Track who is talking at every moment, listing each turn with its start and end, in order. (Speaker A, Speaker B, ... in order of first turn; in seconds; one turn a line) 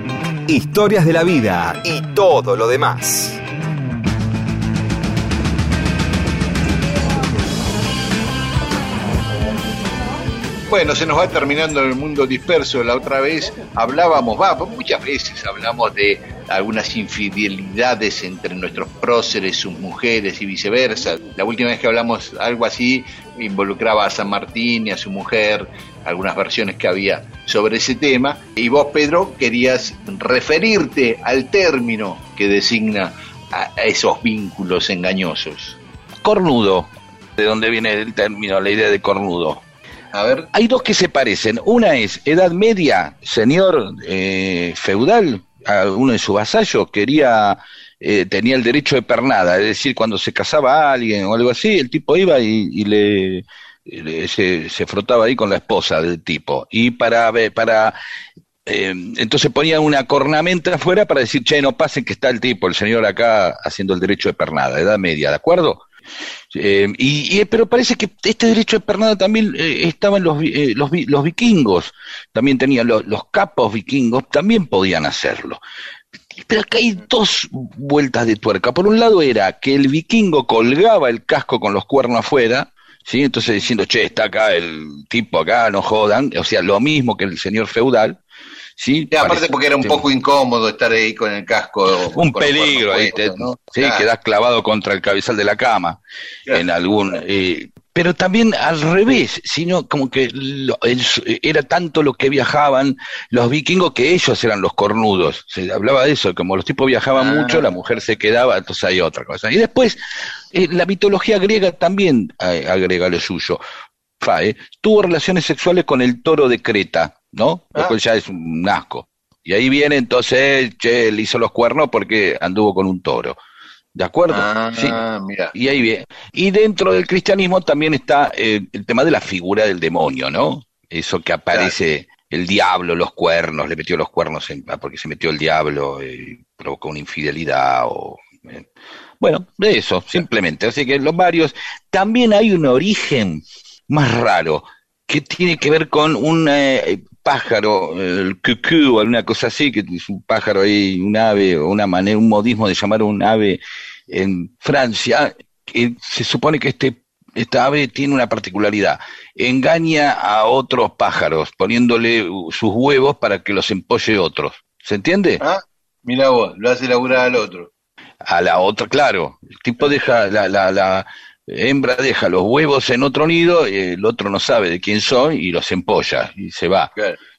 Speaker A: 0.5-3.4
Speaker B: 10.7-35.8
Speaker C: 36.2-39.6
Speaker B: 40.1-40.5
Speaker C: 40.5-58.0
Speaker C: 58.6-65.8
Speaker C: 66.5-75.6
Speaker C: 76.3-88.2
Speaker C: 88.8-90.0
Speaker B: 89.1-94.0
Speaker C: 92.1-96.0
Speaker C: 96.5-110.0
Speaker B: 107.1-107.6
Speaker C: 110.5-113.6
Speaker C: 114.2-123.4
Speaker C: 123.9-125.0
Speaker B: 124.3-125.5
Speaker C: 125.5-138.7
Speaker C: 139.2-165.4
Speaker B: 165.4-167.7
Speaker C: 168.3-176.9